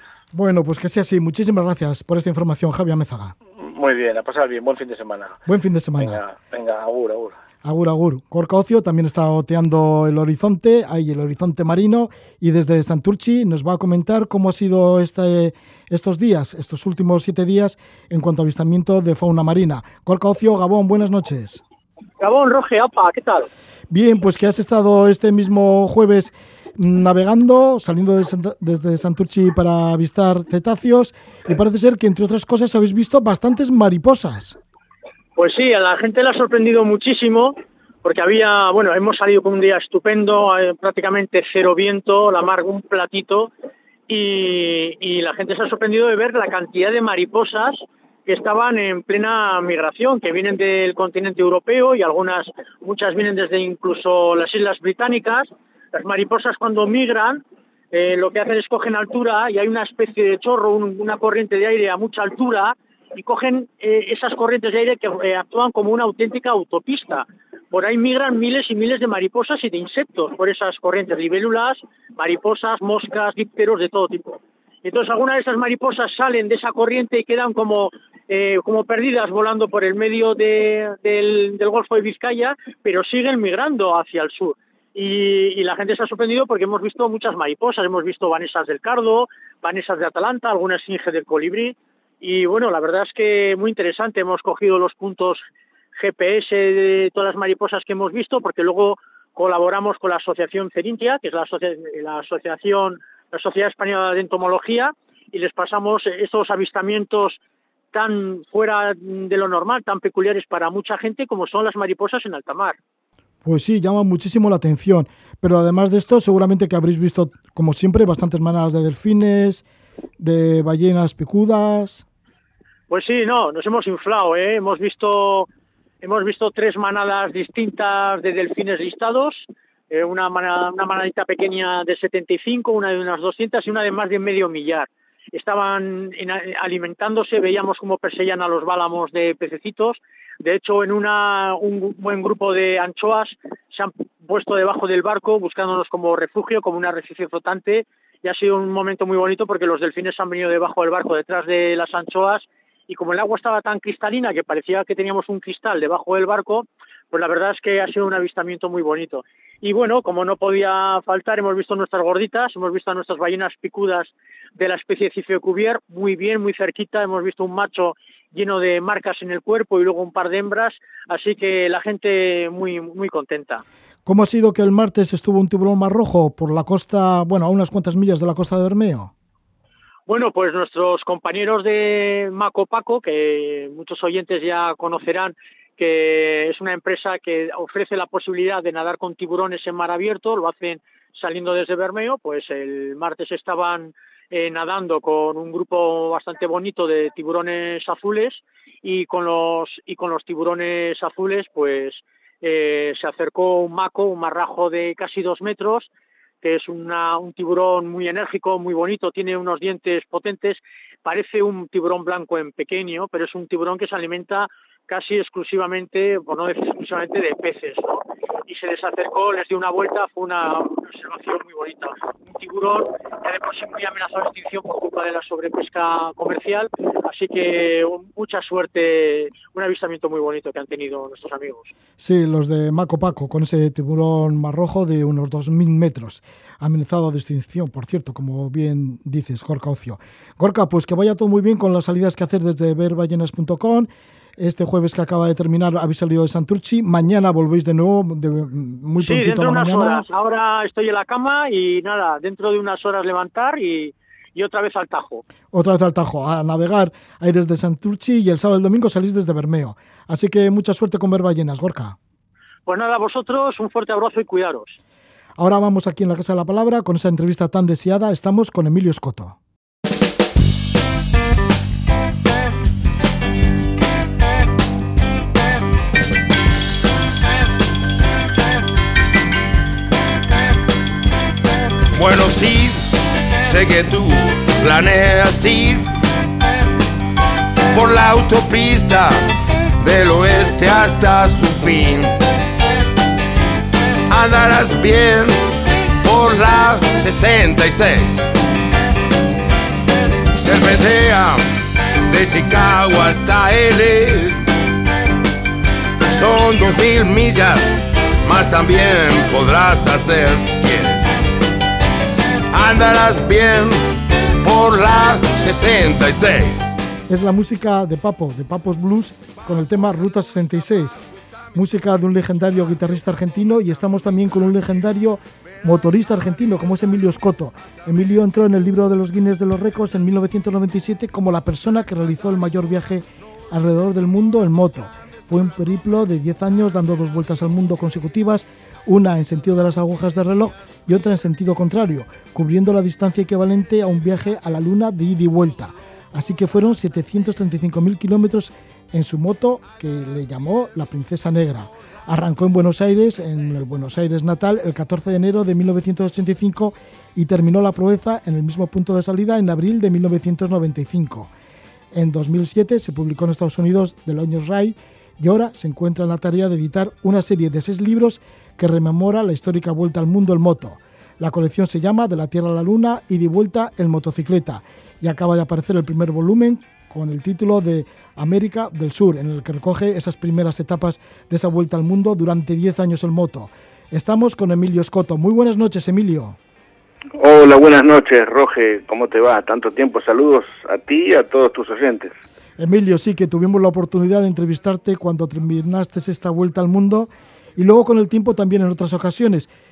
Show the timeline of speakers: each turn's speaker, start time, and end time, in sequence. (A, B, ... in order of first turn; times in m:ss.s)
0:00.3-0:03.4 A
0:03.6-0:05.4 B
0:05.5-0:06.2 A
0:06.0-0:07.4 B
0:07.6-0:21.6 A
0:22.2-0:23.5 C
0:23.9-0:34.6 A
0:35.4-0:43.5 C
0:44.1-1:35.4 C
1:36.0-1:47.4 C
1:47.9-1:52.8 C
1:53.4-1:59.6 A
2:00.2-2:02.0 A
2:02.9-2:05.5 C
2:06.0-2:53.6 C
2:54.1-2:59.1 A
3:00.1-3:25.9 C
3:26.4-3:51.7 C
3:52.0-4:10.1 A
4:09.0-4:15.2 C
4:15.5-4:22.0 A
4:22.7-4:24.8 C
4:25.4-4:29.4 A
4:41.9-4:45.9 D
4:47.7-4:49.3 D
4:49.8-4:52.1 D
4:54.1-4:55.5 D
4:56.0-4:58.2 D
5:00.3-5:01.4 D
5:02.0-5:04.4 D
5:06.0-5:11.1 D
5:12.5-5:13.8 D
5:14.4-5:16.8 D
5:17.1-5:21.0 A
5:21.5-6:01.3 A
6:01.9-6:26.4 A
6:27.2-6:32.2 E
6:32.6-6:39.5 A